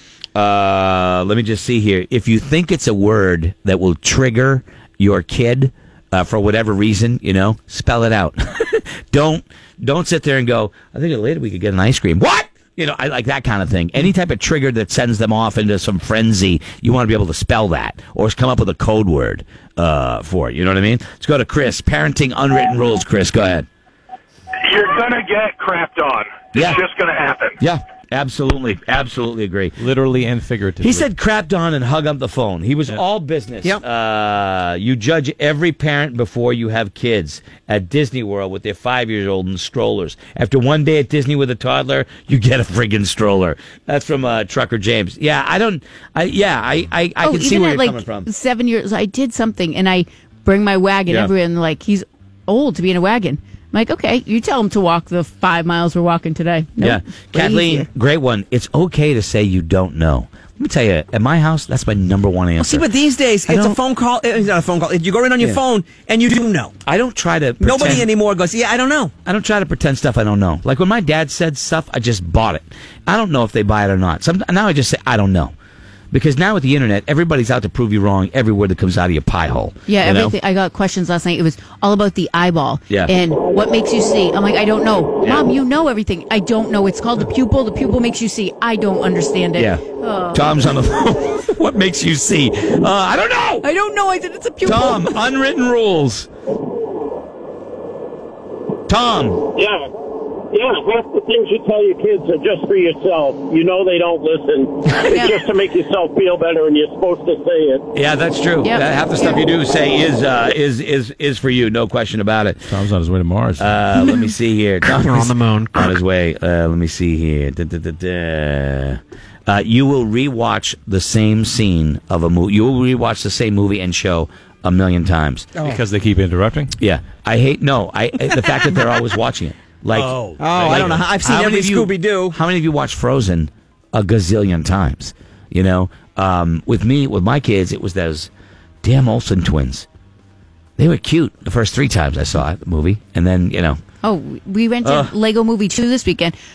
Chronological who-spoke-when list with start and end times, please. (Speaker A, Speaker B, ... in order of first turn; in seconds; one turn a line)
Speaker A: 0.3-23.7
Speaker B: 24.6-27.6
Speaker A: 26.5-26.8
Speaker A: 27.6-29.8
Speaker C: 29.8-31.1
Speaker A: 30.8-48.3
Speaker D: 47.2-57.9
Speaker A: 56.8-62.9
Speaker E: 62.6-66.8
Speaker A: 63.5-63.8
Speaker A: 66.8-68.1
Speaker E: 67.6-69.1
Speaker A: 69.2-75.5
Speaker A: 76.1-80.3
Speaker D: 79.9-90.4
Speaker A: 85.2-85.5
Speaker A: 89.5-93.7
Speaker D: 93.6-95.1
Speaker A: 94.6-96.3
Speaker A: 98.9-99.4
Speaker F: 99.5-99.8
Speaker F: 100.5-107.8
Speaker D: 105.1-105.3
Speaker A: 107.9-112.7
Speaker D: 108.6-109.4
Speaker C: 112.7-113.8
Speaker A: 113.6-125.5
Speaker E: 114.8-115.9
Speaker E: 125.5-125.8
Speaker C: 125.6-126.7
Speaker A: 126.8-138.3
Speaker C: 129.9-131.1
Speaker E: 130.4-132.4
Speaker A: 138.8-139.9
Speaker A: 140.8-143.8
Speaker D: 144.0-146.3
Speaker A: 144.8-145.1